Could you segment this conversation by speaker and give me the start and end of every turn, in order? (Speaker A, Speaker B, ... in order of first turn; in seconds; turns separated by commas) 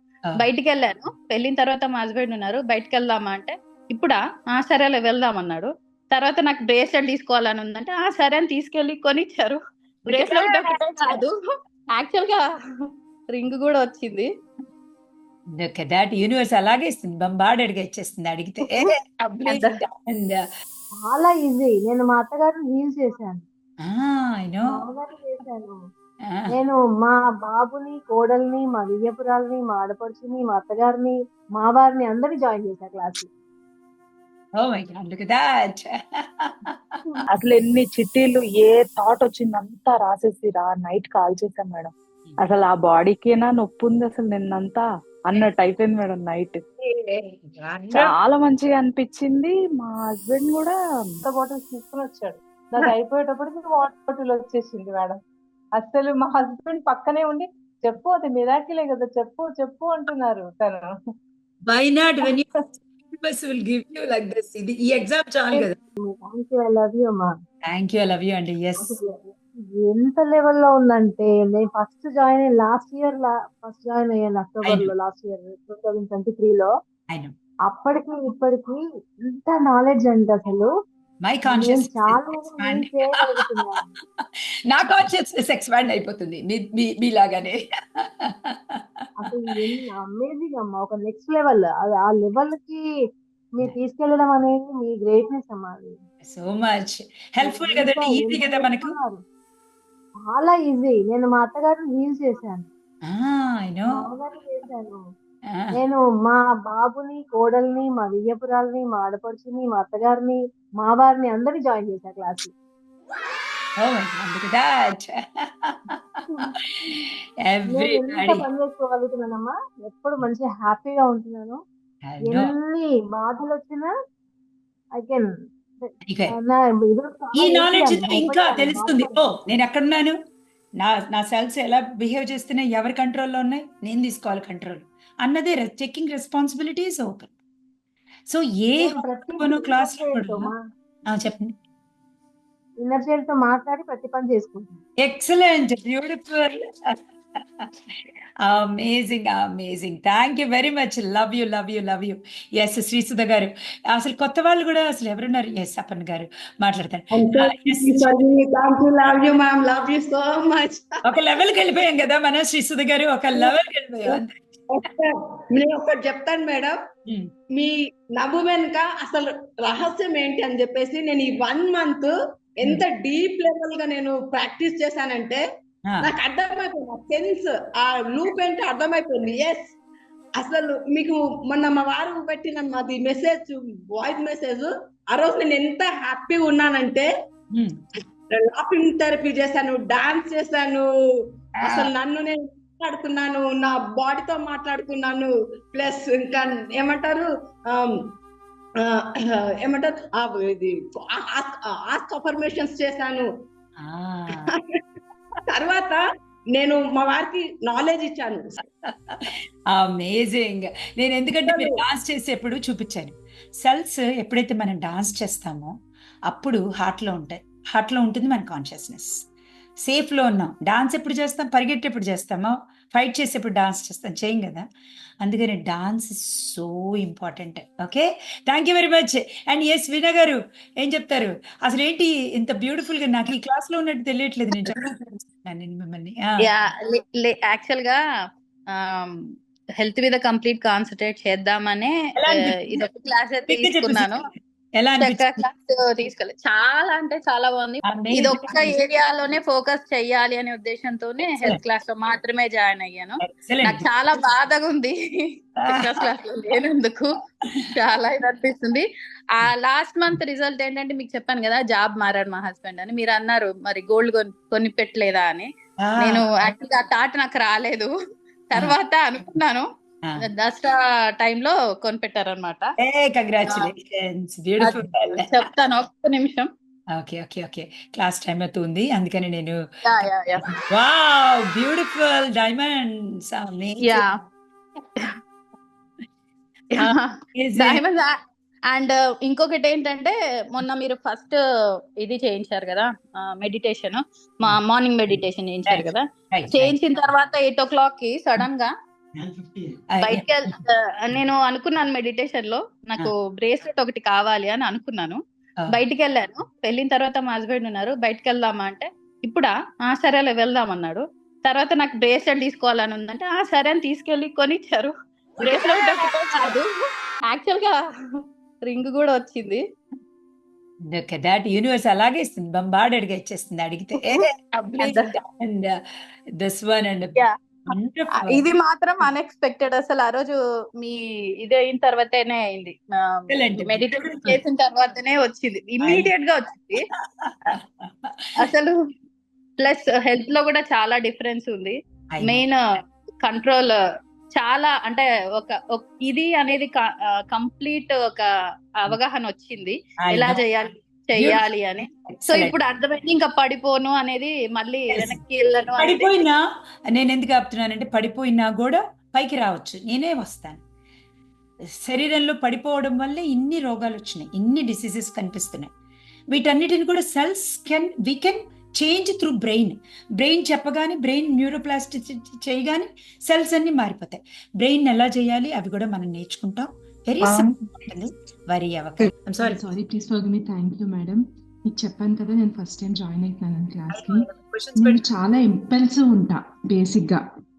Speaker A: 0.4-11.3, Speaker B: 10.1-11.2, Speaker A: 11.9-12.4, Speaker A: 13.3-14.3, Speaker B: 15.5-20.4, Speaker A: 19.4-19.8, Speaker C: 21.0-23.4, Speaker B: 23.8-24.8, Speaker C: 24.6-25.8, Speaker C: 26.5-33.3, Speaker B: 34.6-37.0, Speaker D: 37.3-46.6, Speaker B: 46.8-48.1, Speaker D: 47.9-50.7, Speaker E: 51.3-55.2, Speaker E: 55.8-60.9, Speaker B: 61.7-62.6, Speaker B: 63.2-65.8, Speaker C: 65.5-67.3, Speaker B: 67.7-68.9, Speaker C: 68.8-76.7, Speaker B: 74.6-74.9, Speaker C: 77.7-80.7, Speaker B: 81.2-83.5, Speaker C: 81.4-83.8, Speaker B: 84.2-87.7, Speaker B: 88.2-88.8, Speaker C: 89.2-92.8, Speaker C: 93.5-96.0, Speaker B: 96.2-98.9, Speaker C: 97.4-99.2, Speaker C: 100.3-102.7, Speaker B: 103.0-104.0, Speaker C: 103.9-105.0, Speaker B: 105.5-105.8, Speaker C: 105.7-112.5, Speaker B: 113.8-118.4, Speaker C: 117.7-121.6, Speaker B: 122.0-122.5, Speaker C: 122.2-123.9, Speaker C: 125.0-125.3, Speaker C: 125.8-129.3, Speaker B: 126.0-126.3, Speaker B: 127.3-130.2, Speaker B: 130.8-137.3, Speaker B: 138.3-140.5, Speaker C: 138.8-140.6, Speaker B: 141.1-141.5, Speaker C: 142.8-144.8, Speaker B: 145.0-146.6, Speaker B: 148.4-158.1, Speaker F: 157.2-161.0, Speaker B: 161.0-164.4, Speaker F: 164.7-166.8, Speaker F: 167.6-172.1, Speaker F: 172.6-175.4, Speaker F: 176.1-179.8, Speaker F: 180.4-187.1, Speaker F: 188.3-190.9, Speaker B: 191.6-191.9, Speaker F: 191.7-197.9, Speaker F: 198.8-203.3, Speaker B: 203.8-204.4, Speaker F: 205.5-206.0, Speaker F: 206.6-208.5, Speaker B: 208.9-215.7, Speaker F: 211.5-211.8, Speaker B: 216.3-219.1, Speaker B: 219.8-224.6, Speaker B: 225.2-234.8, Speaker B: 235.4-236.4, Speaker A: 236.4-238.0, Speaker A: 238.9-239.2, Speaker A: 239.8-244.2, Speaker B: 242.2-242.8, Speaker B: 243.5-244.2, Speaker B: 244.8-245.3, Speaker A: 245.0-254.9, Speaker B: 247.9-248.7, Speaker B: 253.2-253.8, Speaker A: 255.7-257.2, Speaker A: 257.7-258.9, Speaker A: 259.4-265.5, Speaker B: 265.8-266.3, Speaker A: 266.0-267.9, Speaker A: 268.5-269.6, Speaker A: 270.2-272.7, Speaker B: 272.8-275.3, Speaker A: 274.6-276.5, Speaker B: 276.9-279.6, Speaker A: 279.8-280.5, Speaker B: 280.7-284.0, Speaker A: 283.8-284.1, Speaker A: 286.7-288.1, Speaker B: 286.8-287.8, Speaker A: 288.7-291.4, Speaker A: 292.0-298.7, Speaker B: 295.1-296.8, Speaker B: 299.2-300.2, Speaker A: 300.0-305.2, Speaker A: 305.7-316.6, Speaker B: 315.4-316.5, Speaker A: 317.3-317.8, Speaker A: 318.6-319.6, Speaker B: 320.9-325.7, Speaker A: 324.8-325.1, Speaker B: 326.4-327.2, Speaker B: 327.7-328.4, Speaker A: 328.2-336.8, Speaker B: 333.3-334.4, Speaker B: 337.2-338.3, Speaker A: 338.4-338.7, Speaker A: 339.6-342.6, Speaker B: 342.1-342.4, Speaker A: 343.2-343.7, Speaker A: 344.3-346.8, Speaker A: 347.3-348.2, Speaker A: 348.8-356.1, Speaker B: 350.0-350.4, Speaker B: 352.1-352.5, Speaker B: 355.8-356.4, Speaker B: 356.9-360.6, Speaker B: 361.8-365.7, Speaker B: 366.3-379.6, Speaker G: 377.2-377.5, Speaker G: 379.3-387.2, Speaker B: 383.9-385.0